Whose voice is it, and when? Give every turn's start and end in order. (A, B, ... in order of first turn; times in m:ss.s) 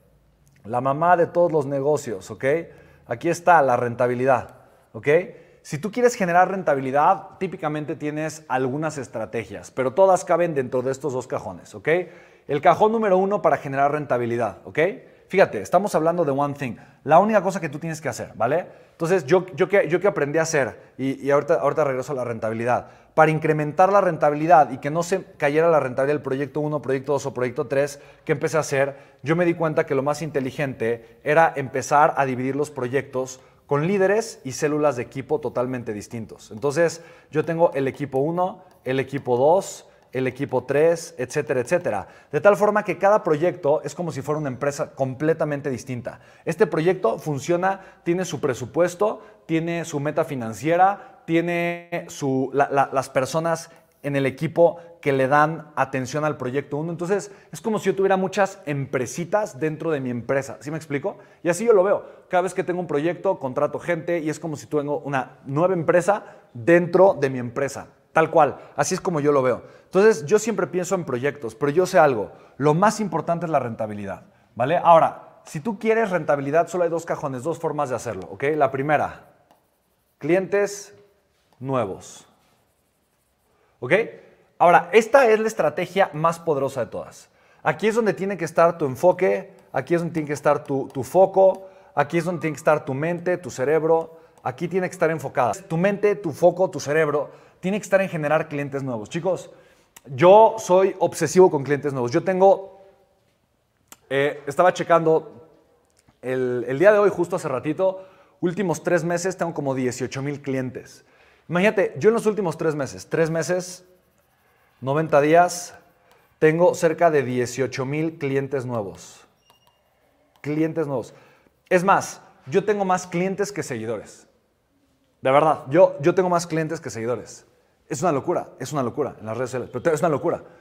0:00.6-1:19.2 A
1:20.2-1:20.9 A
1:21.6-1:22.3 A
1:23.8-1:39.5 A
1:40.1-1:42.8 A
1:44.1-1:45.4 A
1:46.2-1:53.8 A
1:54.8-1:55.7 A
1:56.4-1:59.3 A
2:00.4-2:01.1 A
2:01.7-2:04.3 A
2:05.2-2:10.4 A